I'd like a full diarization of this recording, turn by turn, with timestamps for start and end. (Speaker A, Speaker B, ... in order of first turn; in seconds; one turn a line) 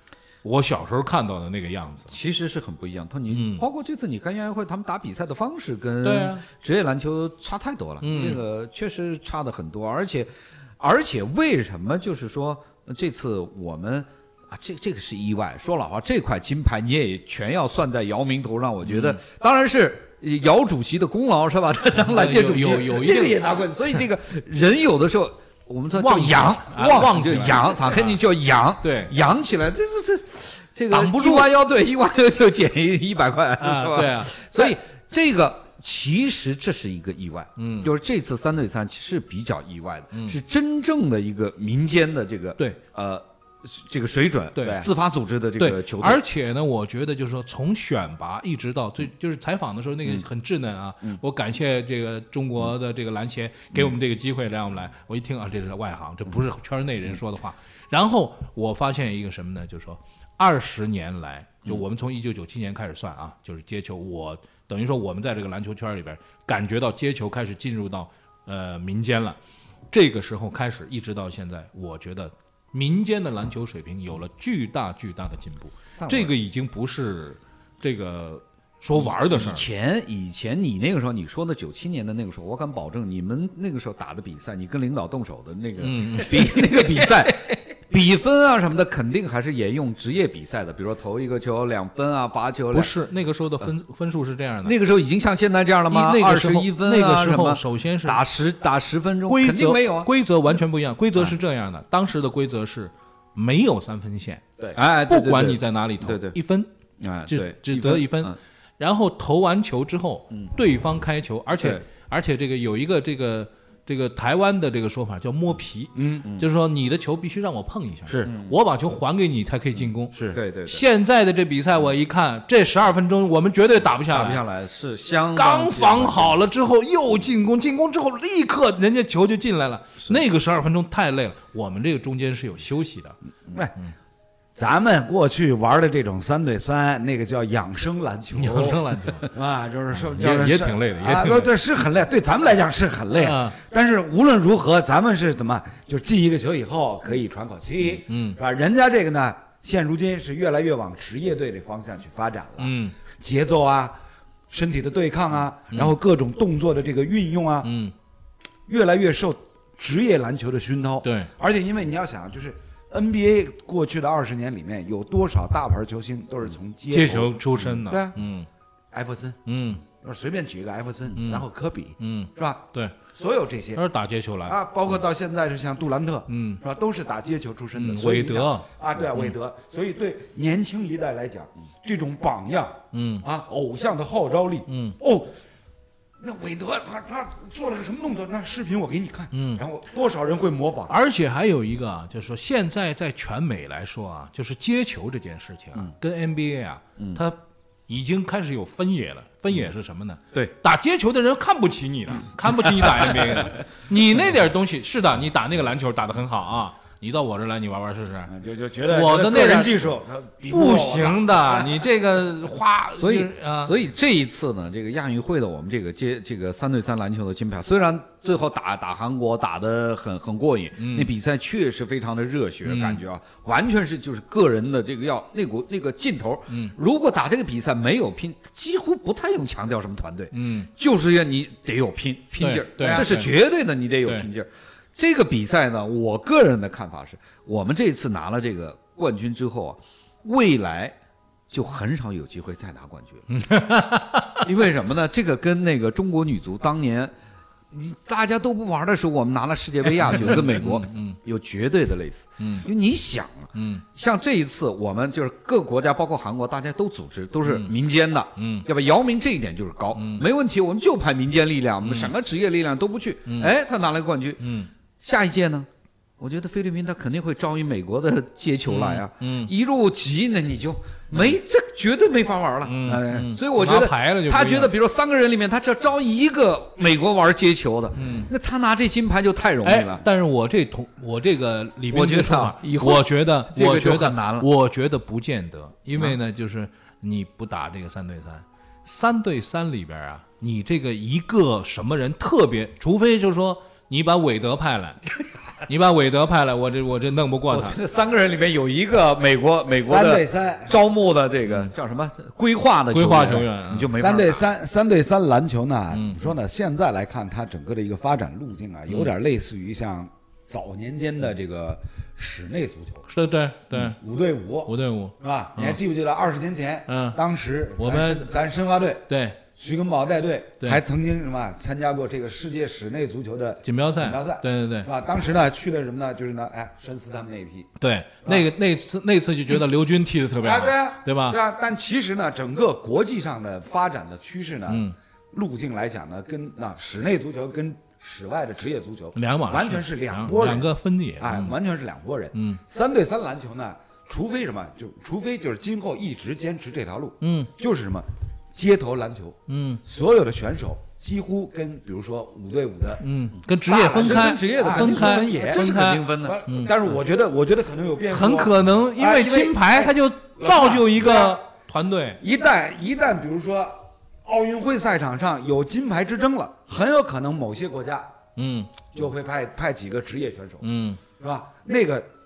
Speaker A: 0.4-2.1
Speaker B: 2.1-46.2
Speaker A: 3.3-3.6
Speaker A: 6.0-6.5
Speaker A: 8.0-8.4
Speaker A: 18.9-19.2
Speaker A: 22.1-23.4
Speaker A: 25.9-28.2
Speaker A: 28.8-29.1
Speaker A: 30.9-31.5
Speaker A: 33.6-34.7
Speaker A: 37.6-37.9
Speaker A: 40.1-40.4
Speaker A: 44.5-44.9
Speaker A: 45.6-69.4
Speaker A: 69.9-79.7
Speaker B: 76.0-76.3
Speaker B: 79.0-92.9
Speaker A: 85.8-87.3
Speaker A: 92.7-94.8
Speaker B: 94.6-100.1
Speaker A: 95.9-98.2
Speaker A: 99.3-104.4
Speaker B: 104.7-106.4
Speaker A: 105.0-106.7
Speaker B: 107.0-108.4
Speaker A: 107.3-124.4
Speaker C: 115.9-116.2
Speaker B: 118.2-118.5
Speaker C: 120.1-120.4
Speaker B: 120.3-120.8
Speaker B: 124.1-126.3
Speaker A: 125.3-133.2
Speaker C: 134.5-153.9
Speaker A: 138.3-139.3
Speaker A: 140.1-141.5
Speaker A: 143.1-143.6
Speaker A: 148.1-148.4
Speaker A: 152.6-152.9
Speaker C: 154.5-157.7
Speaker A: 157.6-157.9
Speaker C: 158.7-168.2
Speaker A: 161.0-161.3
Speaker A: 166.9-168.5
Speaker C: 168.9-173.8
Speaker A: 169.4-169.8
Speaker A: 171.1-171.4
Speaker A: 172.0-173.0
Speaker A: 173.7-174.5
Speaker C: 174.4-185.3
Speaker A: 176.3-176.6
Speaker A: 177.7-178.7
Speaker A: 182.9-183.2
Speaker A: 184.7-184.9
Speaker C: 186.2-190.9
Speaker A: 189.3-189.6
Speaker A: 190.9-208.3
Speaker C: 208.3-211.8
Speaker A: 208.9-209.7
Speaker A: 210.5-213.7
Speaker B: 213.0-241.0
Speaker A: 220.8-221.1
Speaker A: 222.6-223.0
Speaker A: 226.5-226.7
Speaker A: 230.3-230.7
Speaker A: 232.4-233.3
Speaker B: 241.5-243.3
Speaker A: 243.3-244.5
Speaker B: 244.4-247.1
Speaker B: 247.7-264.4
Speaker A: 250.1-251.2
Speaker A: 252.4-252.7
Speaker A: 253.5-253.8
Speaker A: 257.4-257.7
Speaker A: 258.4-258.7
Speaker A: 259.9-260.2
Speaker A: 261.8-262.1
Speaker A: 263.2-263.5
Speaker A: 264.4-264.7
Speaker B: 265.0-265.7
Speaker B: 266.2-280.0
Speaker A: 268.7-269.5
Speaker A: 272.6-274.7
Speaker A: 277.9-278.3
Speaker A: 279.6-295.0
Speaker B: 281.9-284.5
Speaker A: 295.6-297.8
Speaker B: 297.5-304.5
Speaker C: 299.7-300.8
Speaker A: 302.9-303.9
Speaker C: 303.9-313.0
Speaker A: 305.9-306.2
Speaker A: 313.1-314.0
Speaker C: 313.9-327.7
Speaker A: 314.6-315.8
Speaker A: 316.9-317.2
Speaker A: 317.8-318.3
Speaker A: 319.1-319.4
Speaker A: 323.6-324.9
Speaker A: 327.8-331.4
Speaker C: 330.4-353.0
Speaker A: 334.7-334.9
Speaker A: 339.1-341.6
Speaker A: 342.3-342.6
Speaker A: 347.2-347.5
Speaker A: 349.5-349.8
Speaker A: 353.0-356.7
Speaker C: 353.6-361.4
Speaker B: 353.7-356.4
Speaker A: 358.1-362.2
Speaker C: 362.2-368.1
Speaker A: 368.4-368.7
Speaker C: 368.9-370.6
Speaker A: 370.6-371.0
Speaker C: 371.2-372.1